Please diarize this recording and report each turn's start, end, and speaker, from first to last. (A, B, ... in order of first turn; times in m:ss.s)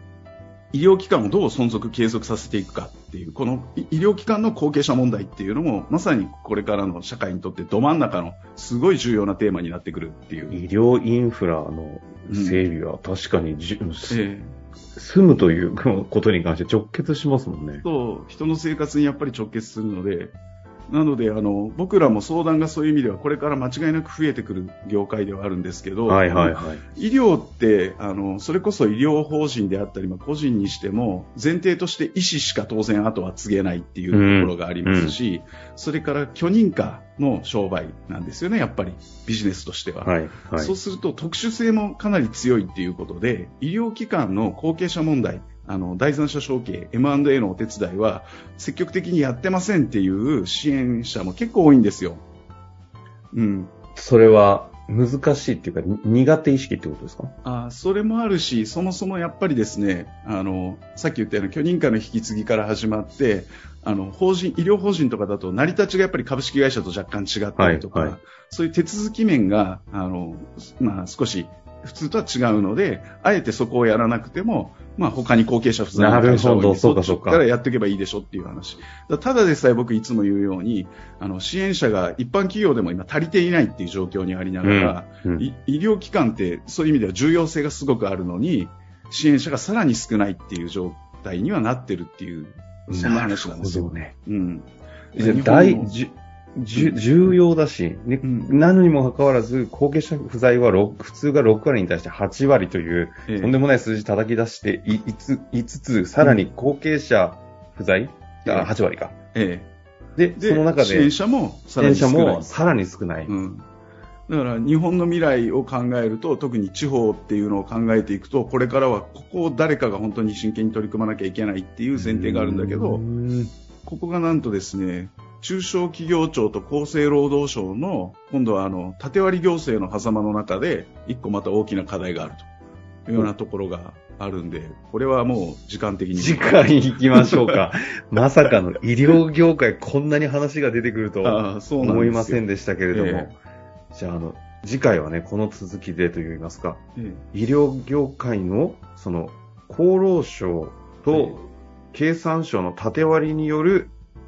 0:00.7-0:10.6 A
0:10.5-0:14.2 B
0:12.3-0:12.6 A
0:14.1-0:14.6 A
0:15.0-0:17.8 B
0:17.8-0:20.4 A
0:20.9-0:52.2 A
0:26.1-0:26.8 B
0:34.1-0:35.2 B
0:40.0-0:40.7 B
0:53.3-0:53.7 A
0:54.0-0:57.3 B
0:57.4-1:35.9 A
1:07.6-1:08.2 B
1:15.9-1:17.4 B
1:24.6-1:25.5 B
1:32.9-1:34.1 B
1:35.2-1:49.2 B
1:36.7-1:37.0 A
1:38.2-1:38.5 A
1:43.3-1:43.6 A
1:46.2-1:46.5 A
1:48.4-1:48.7 A
1:49.3-1:49.7 A
1:50.2-1:51.1 B
1:50.4-1:52.5 A
1:51.8-1:53.3 B
1:53.3-1:53.7 A
1:54.3-2:03.0 A
2:02.0-2:03.5 B
2:03.8-2:12.5 A
2:13.1-2:17.7 A
2:16.1-2:23.4 B
2:21.2-2:23.3 A
2:23.9-2:26.8 B
2:27.0-2:27.2 A
2:27.3-2:33.9 B
2:31.1-2:31.4 A